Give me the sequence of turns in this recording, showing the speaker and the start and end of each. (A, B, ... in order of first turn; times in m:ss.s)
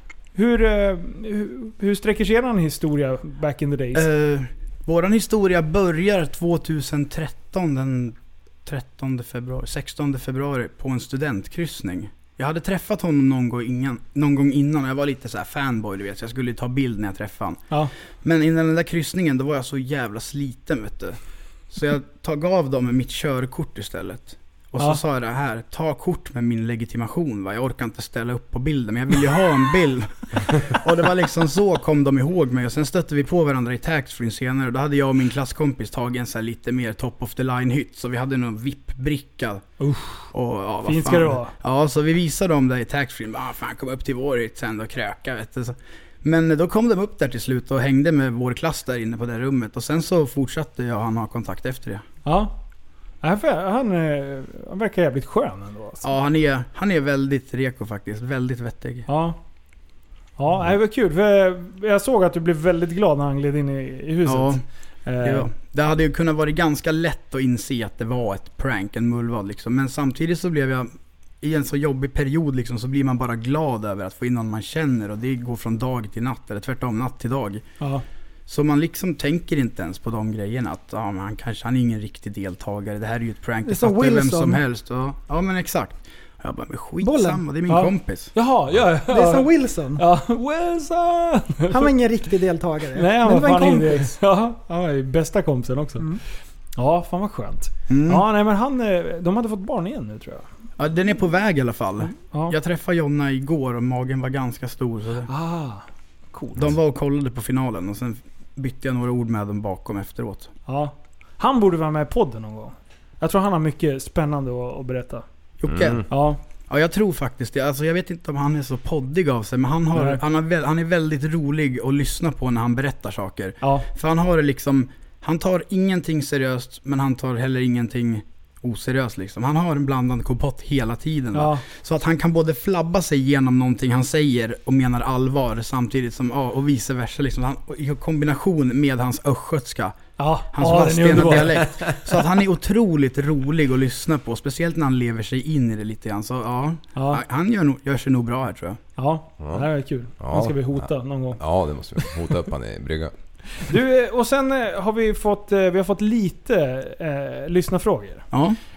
0:00.3-0:04.1 A
0:03.9-0:17.7 B
0:18.2-0:21.2 B
0:21.7-0:39.6 B
0:39.8-0:40.2 A
0:40.3-0:52.0 B
0:40.8-0:41.5 A
0:52.2-0:52.5 A
0:53.2-0:56.1 A
0:56.0-0:59.1 B
0:59.1-0:59.4 A
1:00.4-1:05.5 A
1:04.2-1:04.6 B
1:05.2-1:17.6 B
1:18.5-1:28.3 B
1:23.6-1:24.6 C
1:27.0-1:27.4 C
1:27.7-1:31.9 A
1:29.1-1:30.0 C
1:31.7-1:34.1 C
1:33.0-1:36.1 A
1:36.8-1:40.4 A
1:37.9-1:38.2 B
1:40.8-1:45.3 B
1:45.3-1:46.7 A
1:46.6-1:50.5 B
1:50.7-1:55.2 A
1:55.6-1:56.0 B
1:55.7-1:56.0 D
1:56.1-1:56.4 A
1:56.7-2:20.0 B
1:59.9-2:00.2 A
2:03.6-2:03.9 A
2:11.3-2:11.6 A
2:20.2-2:21.7 A
2:20.5-2:28.8 B
2:26.9-2:27.2 A
2:29.0-2:31.4 A
2:29.4-2:29.6 D
2:30.2-2:33.1 D
2:33.6-2:38.2 A
2:38.3-2:38.6 B